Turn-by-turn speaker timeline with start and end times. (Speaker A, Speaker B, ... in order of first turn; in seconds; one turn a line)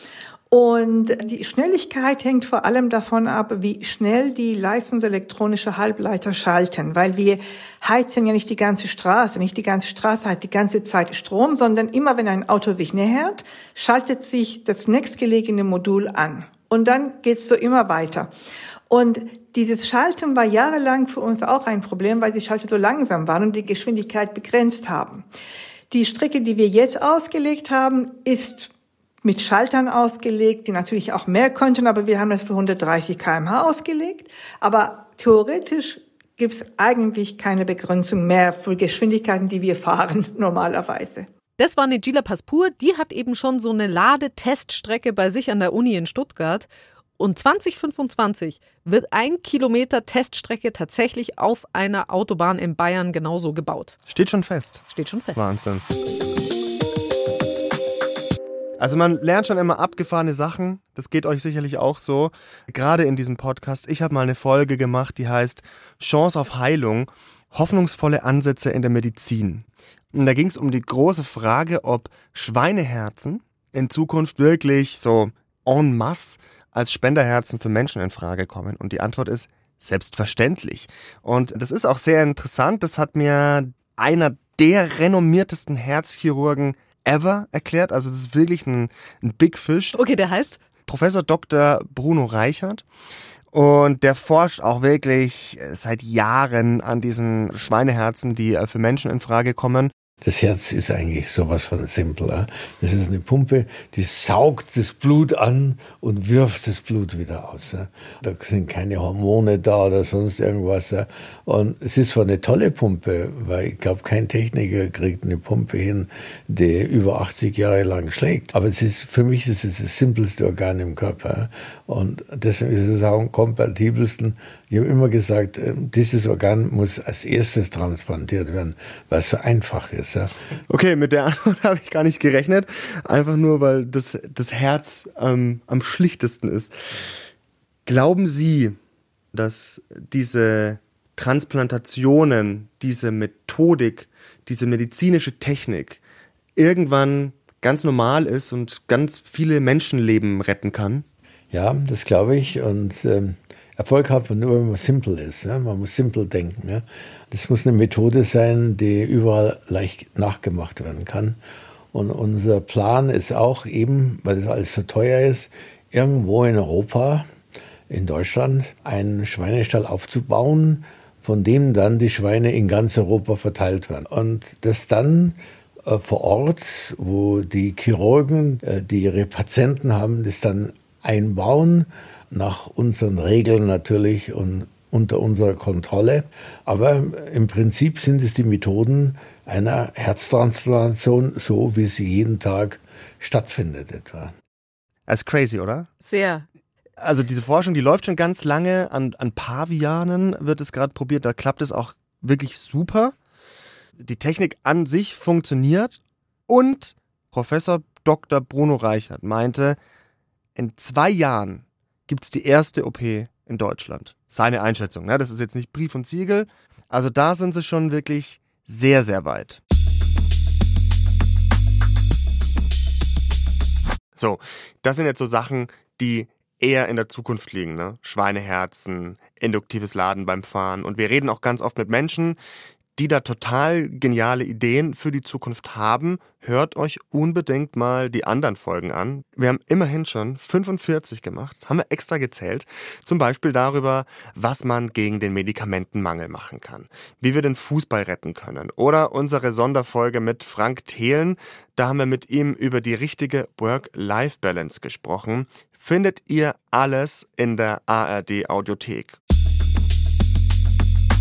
Speaker A: 0.5-18.3
Speaker A: 18.9-25.2
Speaker A: 25.9-28.7
Speaker A: 29.2-41.3
Speaker B: 41.6-46.7
Speaker B: 47.2-54.0
Speaker C: 54.1-55.8
Speaker B: 54.9-55.4
Speaker C: 58.8-90.0
Speaker B: 89.9-90.6
Speaker C: 90.8-92.8
Speaker C: 93.5-99.9
Speaker D: 100.2-130.3
Speaker C: 130.7-136.7
Speaker C: 137.8-138.8
Speaker C: 139.3-146.0
Speaker C: 146.6-151.0
Speaker D: 151.5-161.4
Speaker D: 161.9-167.3
Speaker D: 167.9-194.3
Speaker C: 195.1-195.9
Speaker B: 196.0-196.4
Speaker C: 197.0-203.2
Speaker C: 204.0-209.8
Speaker C: 210.6-219.6
Speaker C: 224.2-232.4
Speaker C: 232.9-259.2